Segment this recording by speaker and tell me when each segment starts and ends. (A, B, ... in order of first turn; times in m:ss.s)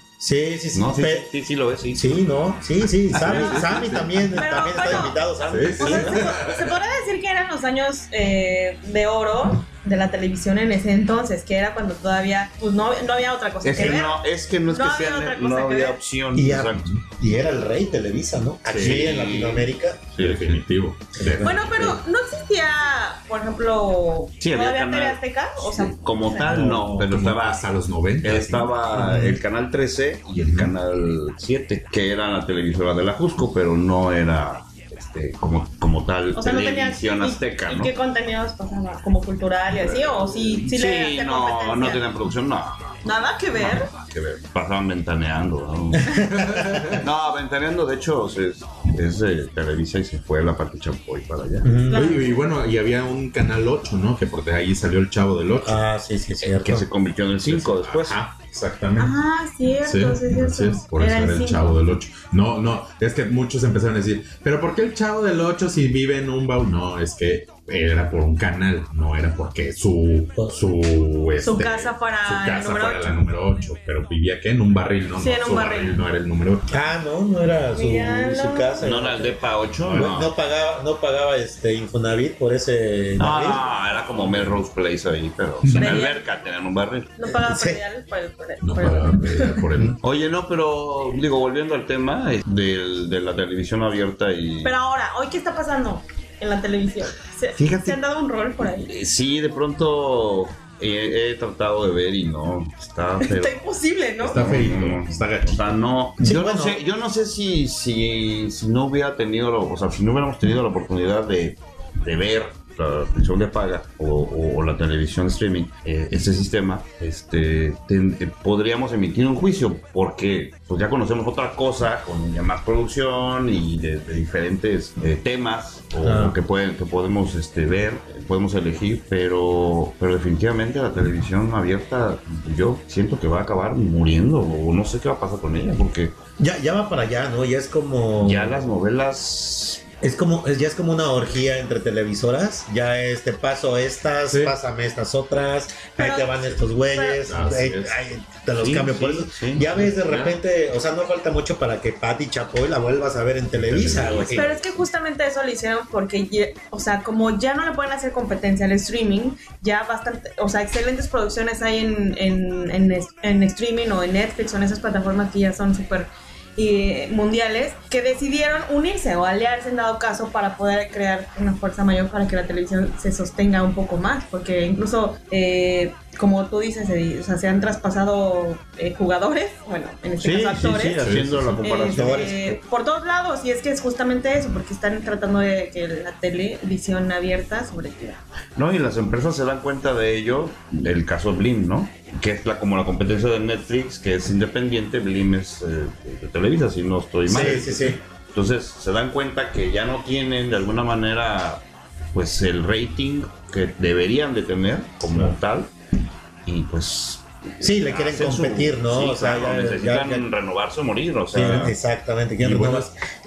0:00.2-0:01.3 A
0:00.7-0:02.2 B
0:01.9-0:06.2 A
0:03.1-0:04.3 B
0:04.3-0:05.2 C
0:05.4-0:06.7 D
0:05.6-0:06.2 B
0:05.7-0:16.0 C
0:13.6-0:16.9 B
0:16.3-0:20.0 A
0:16.8-0:17.0 D
0:18.6-0:19.1 D
0:18.8-0:20.6 B
0:20.2-0:22.0 D
0:21.2-0:22.0 A
0:21.4-0:26.5 C
0:24.4-0:27.6 B
0:26.4-0:28.8 D
0:28.2-0:37.9 B
0:28.9-0:29.4 A
0:30.4-0:30.7 D
0:36.3-0:42.0 C
0:39.8-0:43.0 B
0:43.0-0:43.9 C
0:43.6-0:46.1 B
0:45.9-0:47.0 A
0:46.4-0:46.9 D
0:46.9-0:51.7 B
0:51.6-0:52.2 A
0:51.9-0:52.4 C
0:51.9-0:55.8 D
0:55.6-0:56.8 A
0:56.4-0:58.2 B
0:57.4-0:59.2 D
0:59.0-1:01.7 C
0:59.8-1:16.9 D
1:11.4-1:13.1 C
1:15.2-1:15.9 C
1:16.7-1:23.6 A
1:17.7-1:18.9 C
1:18.8-1:20.3 B
1:23.2-1:27.1 B
1:24.0-1:24.6 D
1:25.6-1:26.1 D
1:25.7-1:26.2 C
1:27.2-1:29.6 C
1:27.2-1:27.8 A
1:28.6-1:30.0 D
1:30.0-1:34.7 B
1:34.6-1:38.9 C
1:37.6-1:38.0 B
1:38.7-1:43.6 B
1:43.2-1:44.5 C
1:44.2-1:45.8 D
1:44.2-2:16.1 B
1:46.2-1:46.8 A
2:06.0-2:06.4 A
2:16.4-2:18.6 A
2:18.2-2:19.8 B
2:20.0-2:34.6 A
2:24.3-2:24.5 D
2:26.0-2:26.4 C
2:26.9-2:27.2 C
2:27.2-2:28.1 D
2:28.6-2:30.4 B
2:33.5-2:34.7 D
2:34.3-3:01.0 C
3:00.2-3:02.3 B
3:01.0-3:01.6 D
3:01.6-3:08.2 C
3:01.8-3:02.6 A
3:08.6-3:25.7 B
3:17.2-3:18.0 A
3:26.4-3:31.7 B
3:27.6-3:30.2 A
3:31.3-3:32.9 A
3:31.4-3:31.7 D
3:32.4-3:32.9 D